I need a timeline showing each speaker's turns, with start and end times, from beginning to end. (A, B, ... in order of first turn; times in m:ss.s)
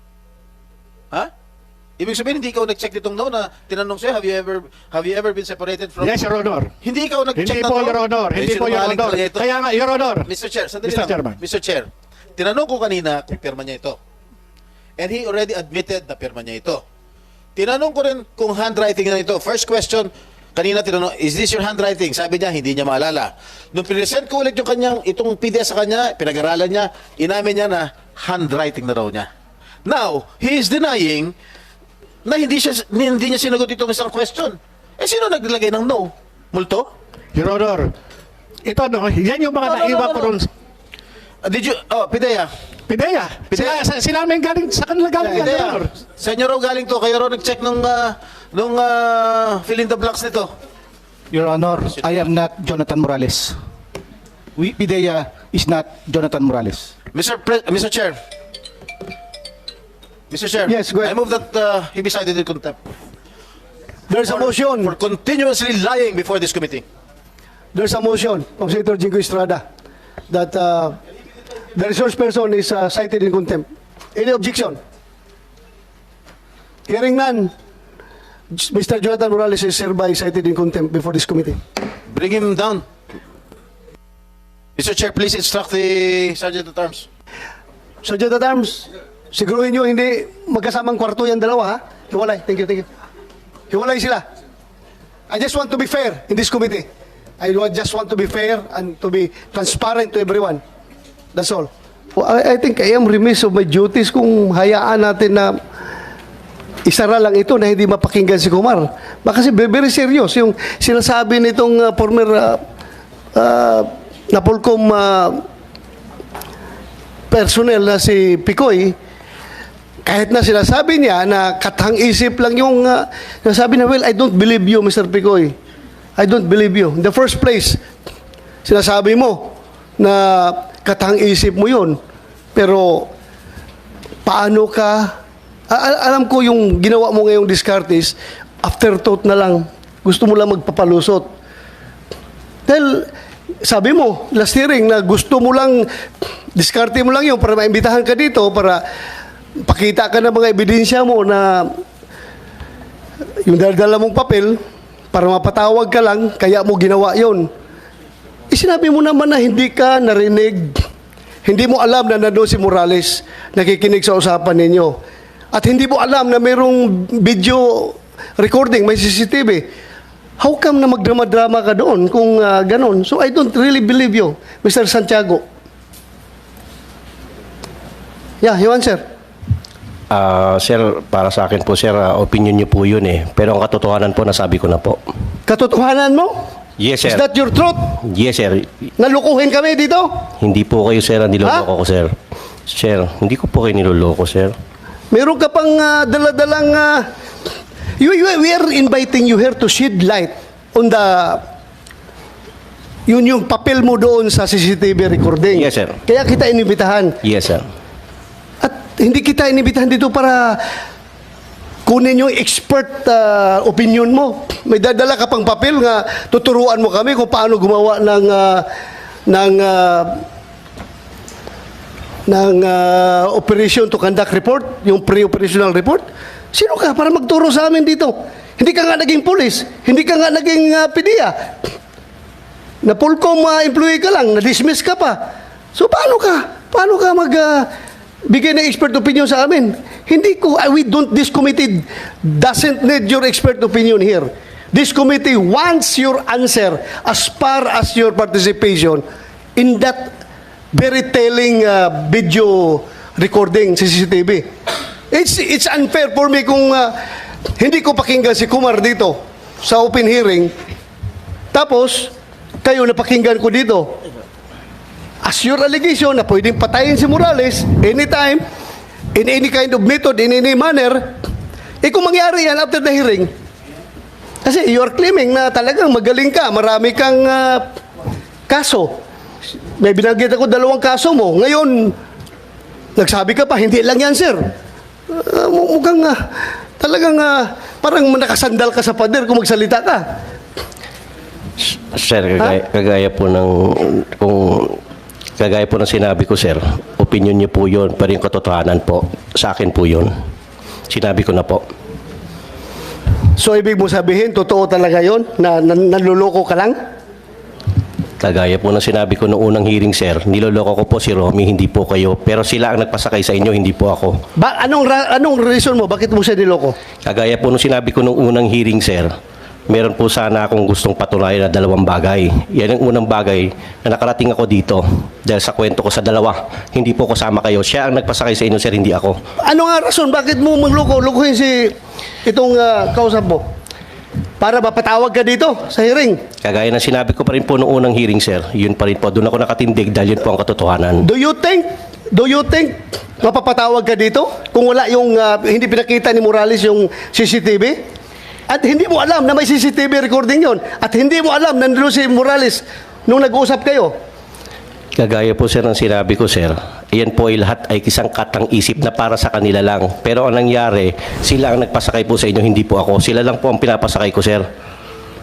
0:02.0-0:06.2 A
0:06.0-0:06.7 B
0:06.8-0:09.4 A
0:07.4-0:10.3 B
0:10.2-0:14.0 A
0:10.8-0:11.4 B
0:15.0-0:16.8 A
0:17.6-0:29.3 A
0:29.8-0:31.3 A
0:32.2-0:36.9 A
0:37.3-0:37.9 B
0:38.6-0:40.5 B
0:39.6-0:40.3 A
0:41.4-0:42.5 A
0:42.9-0:45.9 B
0:43.5-0:43.8 A
0:45.2-0:50.5 A
0:51.3-0:53.6 C
0:51.8-0:52.2 A
0:54.6-0:56.9 C
0:57.1-0:58.2 A
1:00.3-1:02.8 A
1:00.6-1:01.1 D
1:04.1-1:04.9 D
1:04.2-1:06.8 A
1:07.7-1:09.6 D
1:10.3-1:11.0 D
1:11.7-1:14.8 D
1:16.9-1:17.5 D
1:18.5-1:21.6 D
1:22.1-1:22.8 A
1:24.8-1:27.0 A
1:28.0-1:32.9 D
1:33.7-1:34.2 D
1:35.3-1:36.9 D
1:37.4-1:40.6 D
1:41.3-1:45.6 D
1:46.8-1:52.6 D
1:53.3-1:55.4 D
1:57.3-1:58.9 D
2:00.0-2:05.5 D
2:06.2-2:07.8 D
2:08.6-2:12.0 D
2:12.5-2:13.1 D
2:14.2-2:15.1 D
2:15.7-2:21.3 D
2:22.7-2:23.1 D
2:23.6-2:25.9 D
2:26.5-2:28.8 D
2:29.6-2:31.7 D
2:33.4-2:34.6 D
2:35.1-2:37.5 D
2:38.5-2:40.8 D
2:41.4-2:45.0 D
2:45.5-2:49.6 D
2:50.4-2:55.4 D
2:58.4-2:59.0 D
3:00.1-3:05.0 E
3:05.5-3:06.3 D
3:06.8-3:07.2 E
3:07.0-3:07.9 D
3:08.0-3:08.7 E
3:09.0-3:10.1 D
3:10.4-3:12.1 E
3:11.4-3:11.7 D
3:12.7-3:14.5 E
3:15.1-3:17.0 D
3:18.0-3:21.4 D
3:23.1-3:27.2 D
3:25.5-3:26.0 E
3:27.2-3:27.6 E
3:28.6-3:30.6 D
3:31.8-3:38.6 D
3:39.3-3:40.2 D
3:42.3-3:51.3 D
3:52.8-3:55.2 D
3:55.7-3:57.7 D
3:58.3-4:09.0 D
4:09.6-4:10.1 D
4:10.7-4:14.4 D
4:15.1-4:16.9 D
4:17.6-4:20.5 D
4:21.5-4:22.1 D
4:22.6-4:23.9 D
4:25.2-4:28.4 D
4:29.1-4:31.0 D
4:31.8-4:33.3 D
4:34.4-4:37.6 D
4:38.5-4:38.9 D
4:39.8-4:41.9 D
4:43.0-4:44.4 D
4:45.1-4:46.2 D
4:46.8-4:50.0 D
4:51.6-4:54.8 E
4:55.4-5:00.1 E
5:00.9-5:01.6 E
5:03.4-5:06.8 D
5:08.2-5:14.2 E
5:14.4-5:16.7 D
5:17.0-5:19.1 E
5:19.7-5:29.2 E
5:29.4-5:31.7 D
5:32.2-5:33.4 D
5:34.4-5:36.2 D
5:36.4-5:41.0 E
5:41.0-5:47.8 D
5:48.5-5:53.9 D
5:55.0-6:04.4 E